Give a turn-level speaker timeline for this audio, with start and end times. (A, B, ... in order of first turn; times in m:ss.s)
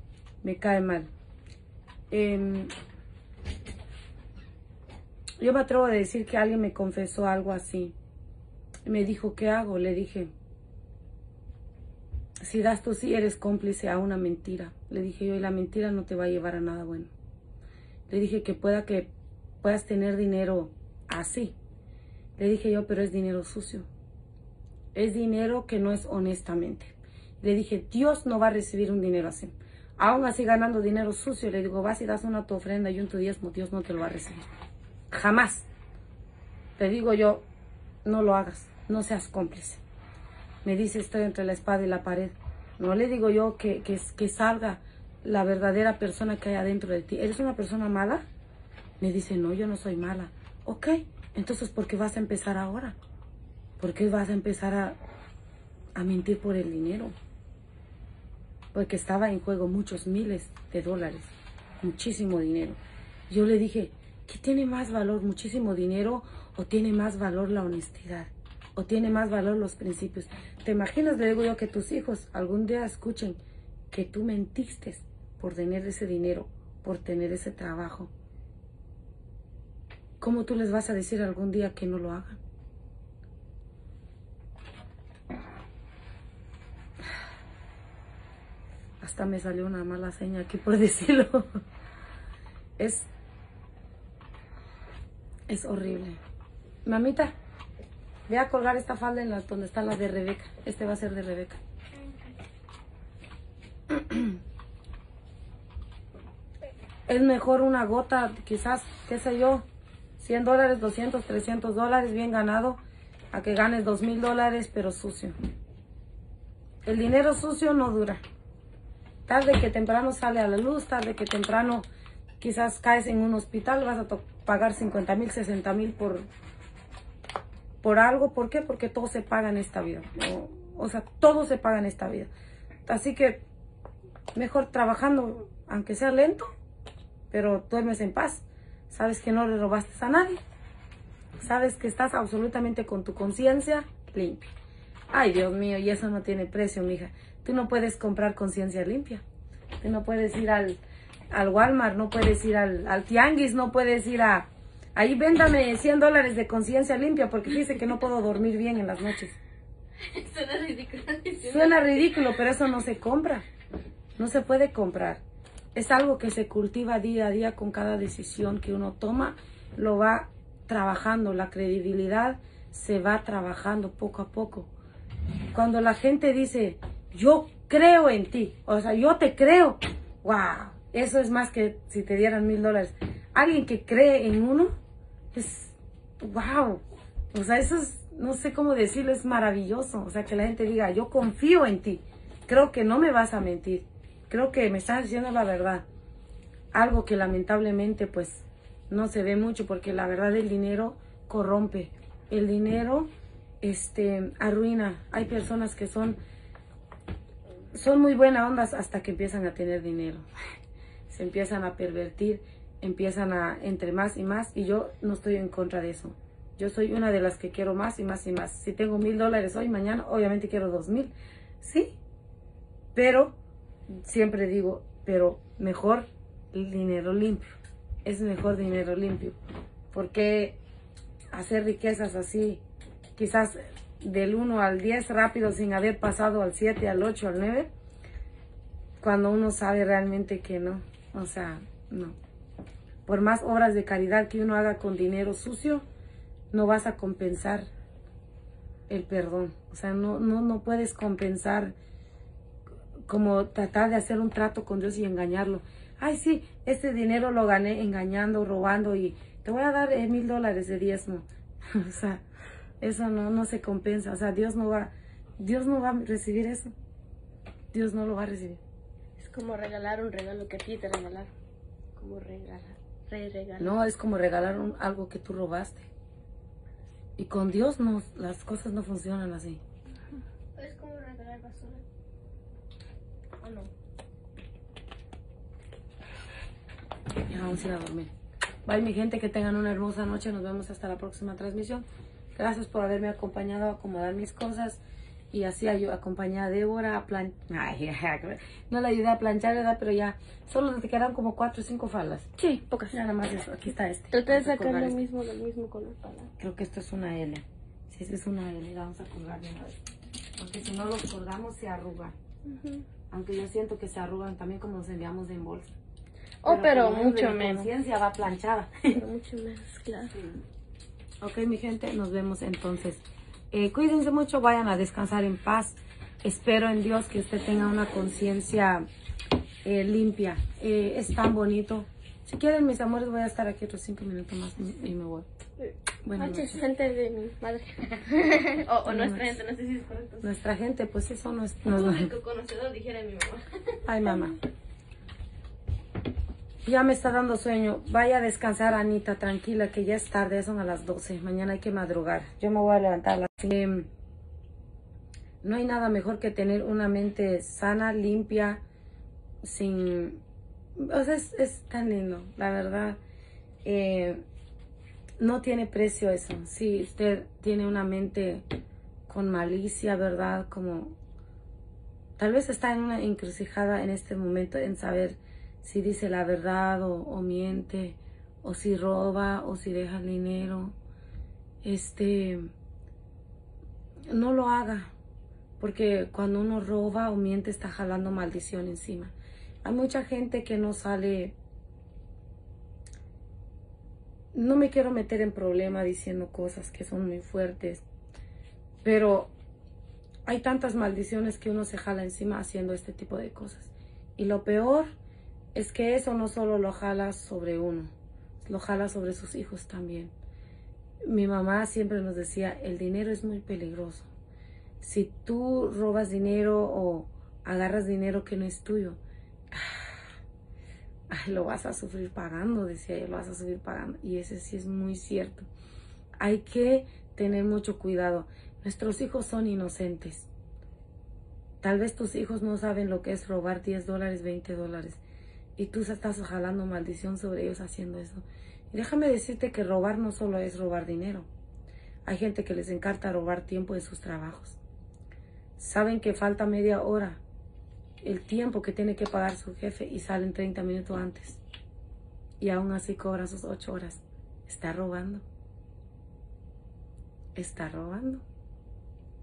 0:00.4-0:01.1 A
0:02.1-0:02.7 A
0:05.4-0:08.0 A
0:08.9-0:10.3 A
0:12.4-0:17.1 A
0:18.1-0:19.1 A
0:19.6-0:21.6 A
0:22.4-0:23.9 A
0:24.9-0:34.5 A
0:35.1-0:35.7 A
0:36.8-0:37.5 A
0:38.0-0:39.8 A
0:40.6-0:48.2 A
0:49.0-0:53.0 A
0:53.8-0:55.0 A
0:56.0-0:57.2 A
0:58.7-1:13.4 A
1:13.9-1:18.1 A
1:20.2-1:22.4 A
1:29.0-1:31.5 A
1:32.8-1:33.1 A
1:35.5-1:36.2 A
1:36.8-1:37.4 A
1:38.3-1:41.6 A
1:43.9-1:44.4 A
1:47.1-1:49.7 A
1:50.2-1:52.8 A
1:53.3-1:55.4 A
1:56.8-1:58.2 A
1:59.3-2:01.9 A
2:02.4-2:06.3 A
2:07.8-2:12.3 A
2:12.9-2:13.4 A
2:14.4-2:16.5 A
2:17.3-2:20.4 A
2:21.4-2:24.5 A
2:25.1-2:29.2 A
2:29.8-2:30.8 A
2:31.3-2:39.4 A
2:40.0-2:42.2 B
2:41.4-2:43.5 A
2:44.2-2:45.2 A
2:45.8-2:54.7 A
2:55.5-3:04.8 A
3:05.3-3:15.9 A
3:16.7-3:23.1 A
3:23.6-3:26.2 A
3:27.7-3:30.3 A
3:31.1-3:42.0 A
3:43.0-3:43.4 A
3:44.0-3:47.5 A
3:48.0-3:49.4 A
3:49.9-3:50.6 A
3:51.3-3:52.6 A
3:53.2-3:57.7 A
3:59.0-4:02.2 A
4:03.1-4:05.8 A
4:06.5-4:07.7 A
4:08.9-4:11.8 A
4:13.1-4:22.2 A
4:22.8-4:26.7 A
4:27.7-4:28.6 A
4:29.2-4:31.3 C
4:29.2-4:31.3 B
4:32.0-4:33.8 B
4:33.6-4:35.9 A
4:37.2-4:39.6 A
4:40.6-4:41.8 C
4:47.3-4:48.1 A
4:48.7-4:51.8 A
4:52.4-4:54.8 A
4:55.3-5:02.4 A
5:02.4-5:02.9 B
5:02.9-5:05.0 A
5:04.1-5:06.3 B
5:06.4-5:09.8 A
5:10.4-5:12.2 A
5:12.5-5:12.8 B
5:13.1-5:15.8 A
5:16.4-5:17.7 B
5:16.5-5:19.0 A
5:18.9-5:20.2 B
5:21.2-5:28.9 A
5:29.6-5:35.3 A
5:35.6-5:37.8 B
5:36.0-5:36.6 A
5:38.1-5:38.6 C
5:38.6-5:40.3 B
5:38.9-5:39.4 A
5:40.2-5:42.1 A
5:41.7-5:44.3 B
5:43.9-5:44.4 A
5:46.6-5:53.9 A
5:55.4-5:58.6 A
5:59.4-6:00.2 A
6:00.8-6:03.0 A
6:03.6-6:04.2 A
6:05.2-6:08.4 A
6:09.1-6:11.0 A
6:12.2-6:20.8 A
6:21.6-6:22.5 A
6:24.1-6:24.9 A
6:25.6-6:29.1 A
6:29.6-6:31.4 A
6:34.3-6:37.8 A
6:38.8-6:39.3 A
6:40.3-6:44.9 A
6:45.6-6:50.1 A
6:51.1-6:54.1 A
6:54.8-6:59.0 A
6:59.5-6:59.8 A
7:01.1-7:05.5 A
7:06.2-7:10.3 A
7:11.6-7:15.0 A
7:15.6-7:21.3 A
7:22.1-7:24.6 A
7:25.6-7:27.2 A
7:28.0-7:31.4 A
7:32.4-7:35.2 A
7:37.4-7:38.2 A